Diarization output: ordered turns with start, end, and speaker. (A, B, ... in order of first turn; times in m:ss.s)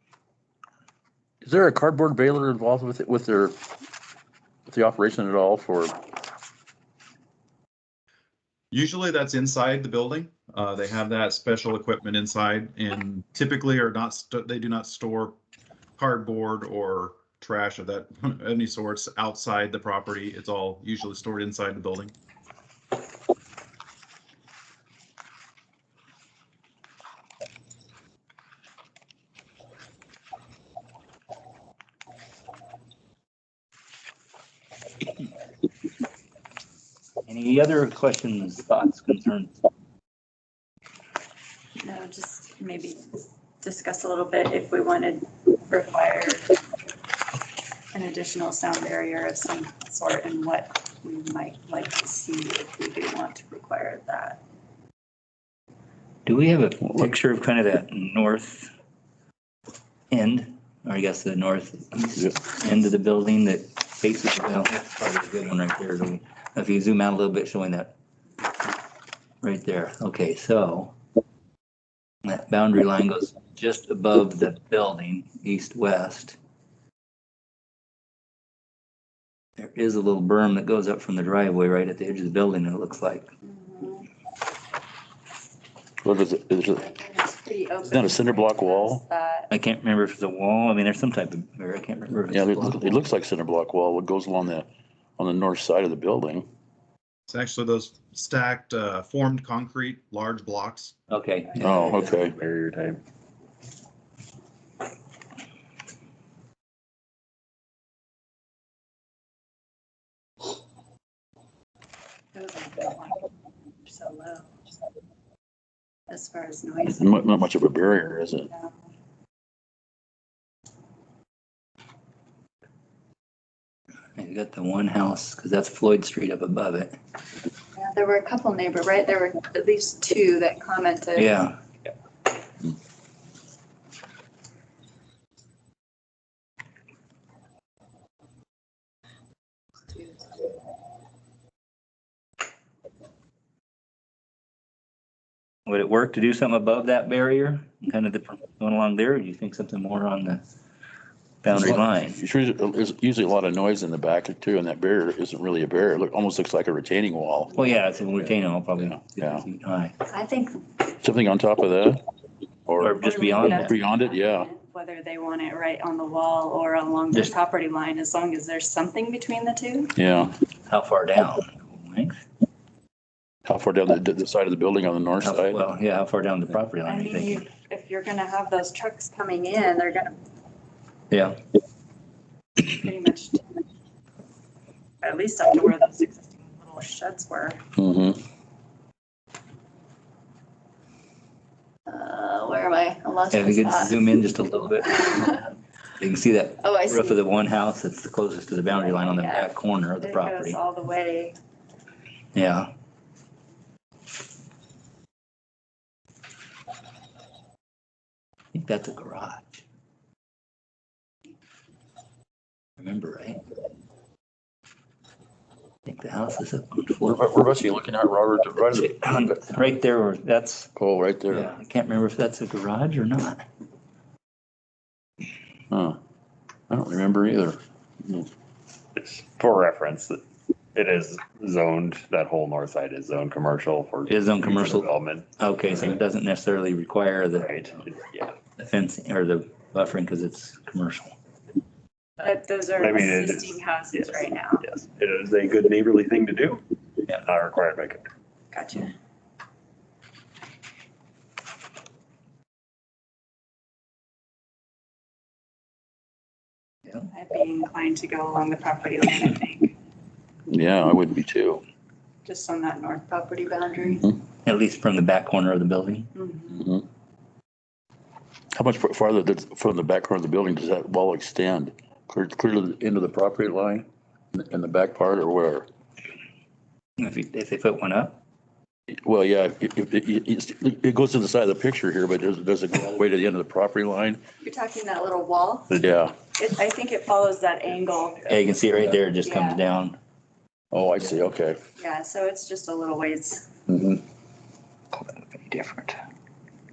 0:01.4-0:03.5 A
0:04.7-0:05.9 A
0:08.7-0:15.4 B
0:16.0-0:22.1 B
0:37.2-0:39.6 C
0:41.8-0:43.1 D
0:43.6-0:46.6 D
0:47.9-0:54.4 D
0:56.2-0:58.7 C
1:00.1-1:07.9 C
1:09.4-1:10.9 C
1:12.2-1:16.4 C
1:19.6-1:23.3 C
1:23.4-1:24.1 D
1:26.0-1:26.9 A
1:26.8-1:29.5 D
1:27.9-1:29.0 A
1:29.5-1:33.0 C
1:32.3-1:36.5 A
1:37.3-1:40.9 B
1:41.1-1:42.2 C
1:41.6-1:42.4 A
1:41.8-1:43.0 E
1:52.3-1:53.3 D
1:53.8-1:54.5 D
1:56.1-1:57.3 D
1:56.8-1:58.5 A
1:58.5-1:58.8 D
2:04.2-2:07.0 C
2:07.7-2:11.3 D
2:11.2-2:11.6 C
2:25.6-2:30.4 C
2:31.4-2:32.2 C
2:31.5-2:37.8 A
2:37.5-2:40.0 C
2:38.8-2:39.4 A
2:40.1-2:40.6 D
2:41.0-2:42.0 A
2:42.7-2:44.5 A
2:42.8-2:43.7 C
2:42.9-2:49.9 D
2:50.0-2:50.3 A
2:50.6-2:52.2 C
2:53.4-2:55.6 A
2:55.2-2:57.4 C
2:56.8-3:00.2 D
3:01.1-3:01.4 C
3:02.6-3:03.4 D
3:05.0-3:07.6 D
3:07.8-3:08.2 A
3:11.9-3:13.9 D
3:13.3-3:15.4 C
3:16.0-3:20.6 C
3:16.6-3:17.2 D
3:18.7-3:19.5 D
3:20.0-3:21.4 D
3:22.3-3:22.7 C
3:28.5-3:29.6 C
3:32.8-3:33.4 C
3:35.8-3:37.3 C
3:37.0-3:39.3 A
3:38.7-3:40.7 C
3:40.8-3:41.5 A
3:41.3-3:43.4 C
3:45.7-3:46.0 A
3:46.7-3:48.3 A
3:48.9-3:50.2 E
3:50.7-3:55.3 E
3:54.0-3:57.5 C
3:57.3-3:58.3 E
3:58.6-4:01.1 C
4:02.2-4:04.6 D
4:02.8-4:08.1 E
4:08.5-4:08.9 D
4:17.1-4:19.7 D
4:20.5-4:21.6 A
4:22.2-4:24.0 D
4:24.4-4:26.1 C
4:26.1-4:26.6 D
4:26.5-4:26.8 A
4:28.5-4:35.7 A
4:37.0-4:38.2 C
4:39.0-4:44.2 A
4:44.4-4:45.7 D
4:45.7-4:46.1 A
4:46.3-4:48.3 D
4:48.3-4:50.0 C
4:49.2-4:49.6 D
4:50.7-4:51.6 A
4:51.8-4:53.5 D
4:53.7-4:54.0 A
4:54.9-4:56.0 C